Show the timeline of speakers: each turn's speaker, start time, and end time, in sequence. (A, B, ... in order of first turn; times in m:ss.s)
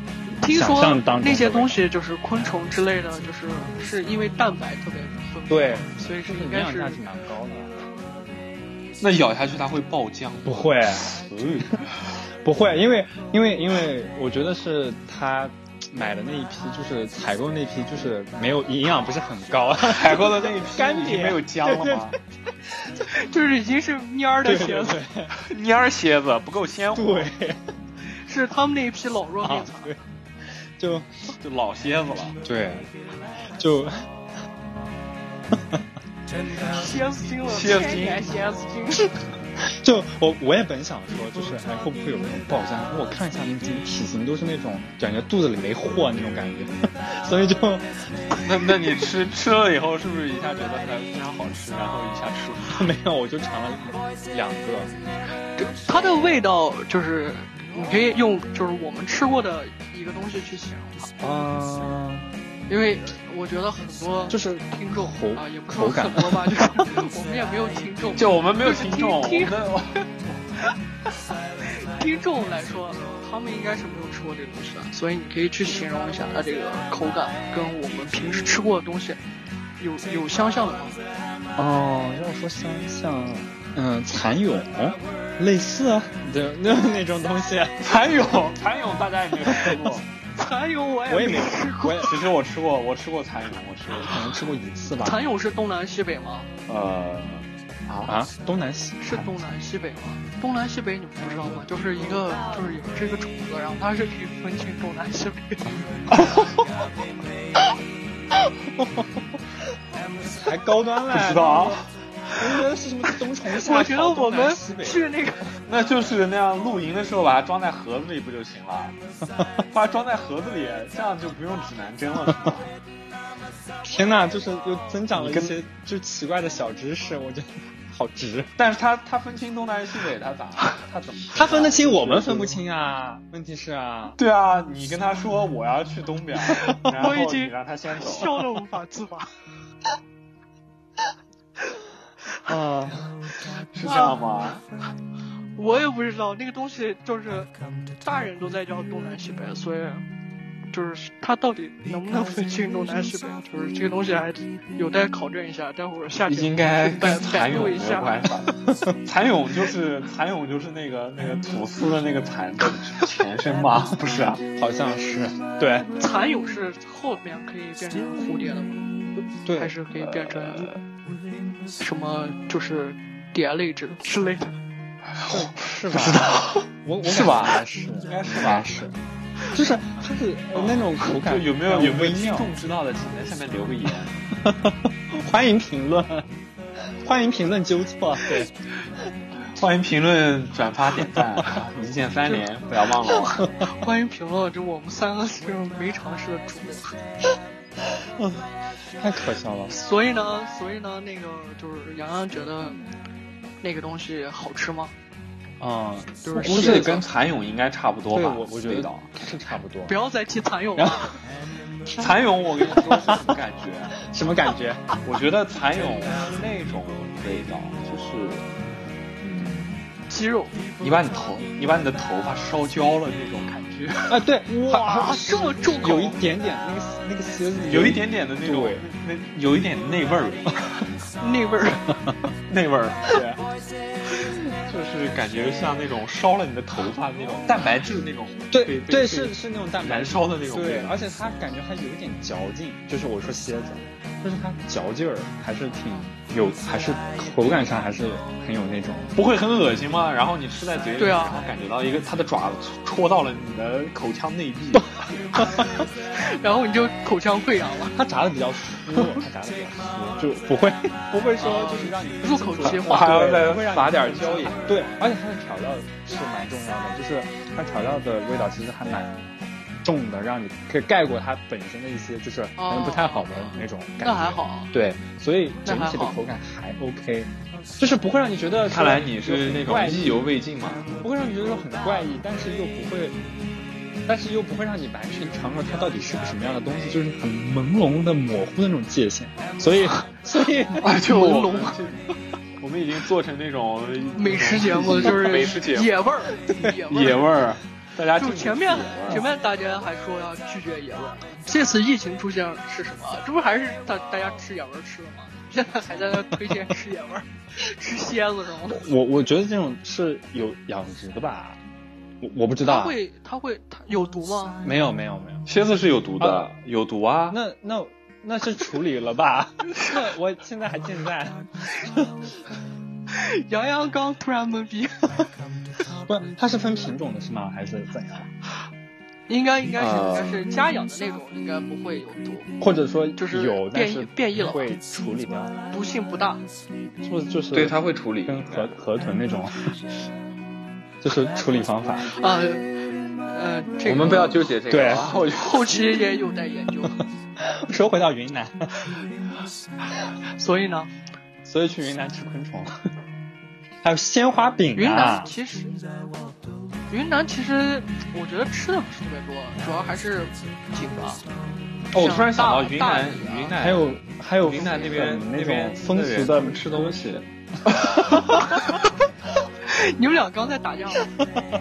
0:00.4-0:07.0 A
0:00.4-0:01.8 B
0:05.5-0:07.7 B
0:09.0-0:12.1 C
0:10.4-0:11.1 B
0:12.4-0:22.2 B
0:19.8-0:22.2 C
0:23.1-0:25.0 A
0:24.4-0:25.3 B
0:25.4-0:27.3 C
0:26.9-0:27.6 B
0:28.1-0:29.9 A
0:29.4-0:30.0 B
0:30.5-0:31.1 B
0:31.4-0:32.4 C
0:32.4-0:32.9 B
0:33.6-0:34.0 B
0:35.6-0:35.8 B
0:36.5-0:39.1 A
0:37.4-0:38.4 C
0:39.6-0:48.2 B
0:48.4-0:52.9 C
0:52.7-0:54.9 B
0:55.6-1:01.1 A
1:01.2-1:02.3 B
1:02.7-1:09.7 A
1:04.3-1:06.8 B
1:08.2-1:10.4 C
1:11.6-1:19.2 A
1:19.8-1:21.0 A
1:21.6-1:27.8 B
1:27.8-1:30.1 C
1:29.5-1:29.9 B
1:30.4-1:32.2 A
1:31.1-1:32.2 B
1:32.0-1:34.3 C
1:33.9-1:35.2 B
1:35.0-1:36.5 A
1:36.7-1:38.2 C
1:38.1-1:39.4 B
1:39.0-1:45.7 A
1:48.8-1:49.1 B
1:50.4-1:51.8 B
1:51.1-1:51.9 C
1:52.4-1:55.1 B
1:53.5-1:55.5 A
1:55.6-1:58.9 C
1:59.7-2:02.7 C
2:03.8-2:08.5 B
2:05.1-2:05.6 C
2:08.6-2:12.6 C
2:11.3-2:14.2 B
2:14.2-2:18.4 C
2:16.9-2:19.3 A
2:22.5-2:23.1 B
2:23.7-2:24.6 C
2:23.9-2:24.1 A
2:25.6-2:30.0 A
2:30.7-2:38.3 A
2:36.3-2:44.4 C
2:38.7-2:38.9 B
2:44.6-2:45.9 B
2:46.0-2:48.9 A
2:49.4-2:49.7 B
2:49.6-2:50.7 A
2:51.8-2:54.5 A
2:55.1-2:58.8 C
2:55.3-2:59.0 B
2:59.5-3:02.5 B
3:00.5-3:04.2 C
3:04.4-3:06.3 B
3:06.9-3:08.5 B
3:09.5-3:13.4 C
3:13.0-3:17.0 A
3:19.0-3:19.7 B
3:19.7-3:22.8 A
3:23.6-3:24.9 A
3:25.6-3:27.0 B
3:26.2-3:27.0 A
3:26.4-3:29.1 C
3:28.1-3:29.9 B
3:29.9-3:31.1 A
3:30.8-3:31.0 B
3:31.9-3:34.0 C
3:32.7-3:33.2 B
3:34.0-3:34.9 B
3:35.0-3:38.4 C
3:39.2-3:39.8 C
3:40.1-3:40.6 A
3:40.8-3:44.2 C
3:44.1-3:48.8 B
3:44.7-3:46.2 A
3:47.7-3:50.8 C
3:51.2-3:51.9 A
3:52.5-3:53.4 C
3:54.6-4:01.0 C
3:58.5-4:09.1 B
4:09.1-4:15.0 C
4:11.0-4:11.4 A
4:16.1-4:18.0 A
4:17.9-4:29.2 B
4:21.4-4:23.1 A
4:22.6-4:25.1 C
4:29.8-4:40.3 B
4:32.6-4:34.7 A
4:35.6-4:36.2 A
4:38.7-4:40.9 C
4:41.0-4:43.2 B
4:44.1-4:50.9 B
4:50.8-4:52.1 C
4:51.0-4:51.8 A
4:52.6-4:56.0 C
4:54.1-4:57.2 A
4:56.9-4:59.3 C
4:58.2-5:08.8 A
5:08.7-5:11.6 B
5:12.2-5:13.0 B
5:12.6-5:14.6 A
5:14.6-5:15.4 B
5:15.5-5:17.4 C
5:16.2-5:16.4 B
5:17.3-5:22.3 B
5:23.1-5:25.3 A
5:25.9-5:28.3 B
5:29.3-5:32.5 A
5:29.8-5:30.4 C
5:32.6-5:35.6 B
5:33.2-5:34.7 A
5:35.7-5:36.4 A
5:37.0-5:37.7 B
5:37.5-5:38.8 C
5:38.2-5:39.6 B
5:41.0-5:42.1 B
5:42.1-5:44.4 A
5:43.8-5:45.9 C
5:44.7-5:45.2 B
5:45.1-5:46.9 A
5:47.0-5:48.7 B
5:50.4-5:50.9 A
5:51.4-5:52.7 B
5:53.8-5:55.3 B
5:54.7-5:55.7 A
5:56.9-6:01.2 A
6:01.9-6:08.5 C
6:01.9-6:03.6 A
6:03.6-6:07.0 B
6:08.0-6:08.8 A
6:09.6-6:11.1 A